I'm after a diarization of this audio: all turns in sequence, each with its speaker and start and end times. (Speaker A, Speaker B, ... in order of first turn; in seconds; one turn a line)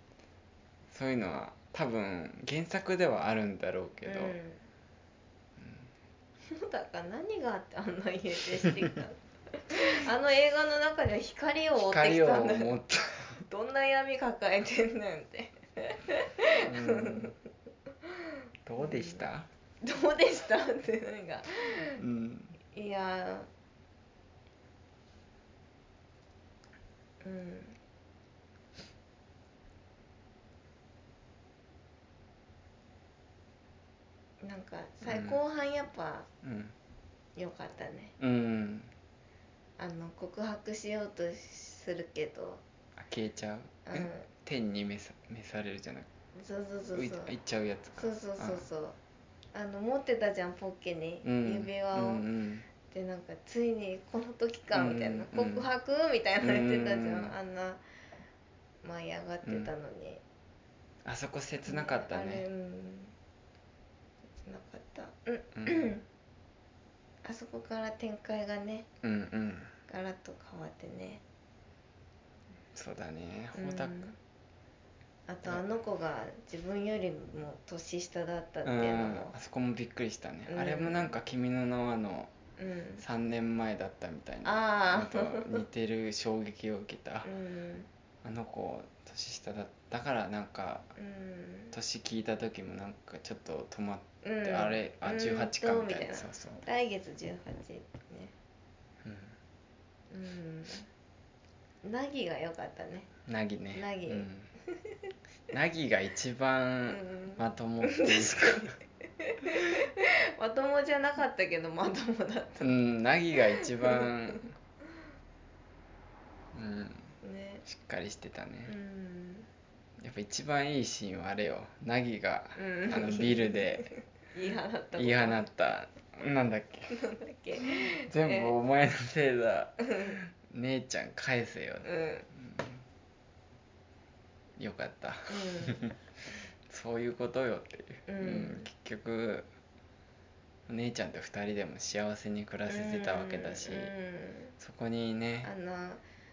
Speaker A: 0.9-4.4
Speaker B: 4.1-4.7
Speaker A: 5.6-5.9
Speaker B: 6.5-12.8
Speaker A: 11.8-13.4
Speaker B: 13.5-17.3
Speaker A: 16.6-17.4
Speaker A: 18.7-19.5
Speaker B: 18.8-19.2
Speaker B: 19.8-22.0
Speaker A: 22.0-22.6
Speaker B: 22.7-23.5
Speaker B: 27.2-27.8
Speaker B: 34.4-36.3
Speaker A: 35.0-35.4
Speaker A: 36.4-36.8
Speaker B: 37.4-38.1
Speaker A: 38.2-38.9
Speaker B: 39.8-42.6
Speaker A: 43.0-46.1
Speaker B: 43.9-44.3
Speaker B: 46.4-47.4
Speaker A: 46.9-48.6
Speaker B: 48.0-49.0
Speaker B: 49.5-52.2
Speaker A: 51.2-52.7
Speaker B: 52.9-57.8
Speaker A: 54.7-55.7
Speaker A: 56.4-57.4
Speaker B: 58.8-60.2
Speaker A: 59.5-59.7
Speaker A: 61.0-62.5
Speaker B: 61.6-63.1
Speaker B: 64.4-66.0
Speaker A: 65.5-66.0
Speaker B: 67.2-68.9
Speaker A: 69.0-69.7
Speaker B: 69.9-71.2
Speaker A: 72.7-74.1
Speaker B: 73.5-74.2
Speaker B: 75.3-79.3
Speaker A: 75.4-75.7
Speaker A: 78.7-82.3
Speaker B: 80.5-81.2
Speaker B: 82.6-83.0
Speaker A: 83.0-87.3
Speaker B: 84.4-85.6
Speaker B: 87.2-87.9
Speaker A: 88.2-90.9
Speaker B: 91.0-91.7
Speaker A: 91.7-96.7
Speaker B: 94.2-98.3
Speaker A: 99.0-99.3
Speaker B: 100.1-100.9
Speaker B: 101.8-103.1
Speaker A: 103.3-104.5
Speaker B: 103.7-104.3
Speaker A: 105.5-108.7
Speaker B: 106.9-112.7
Speaker A: 112.6-114.5
Speaker B: 113.6-114.1
Speaker A: 116.5-117.1
Speaker B: 117.2-117.7
Speaker A: 117.7-118.7
Speaker B: 118.7-119.5
Speaker A: 120.0-123.9
Speaker B: 122.6-125.4
Speaker A: 125.0-127.0
Speaker B: 127.0-128.6
Speaker A: 127.6-132.8
Speaker B: 131.8-132.2
Speaker A: 134.6-136.0
Speaker B: 135.3-135.8
Speaker A: 136.7-139.5
Speaker B: 138.1-138.7
Speaker A: 140.7-143.9
Speaker B: 142.7-144.5
Speaker A: 144.6-145.5
Speaker B: 145.4-146.0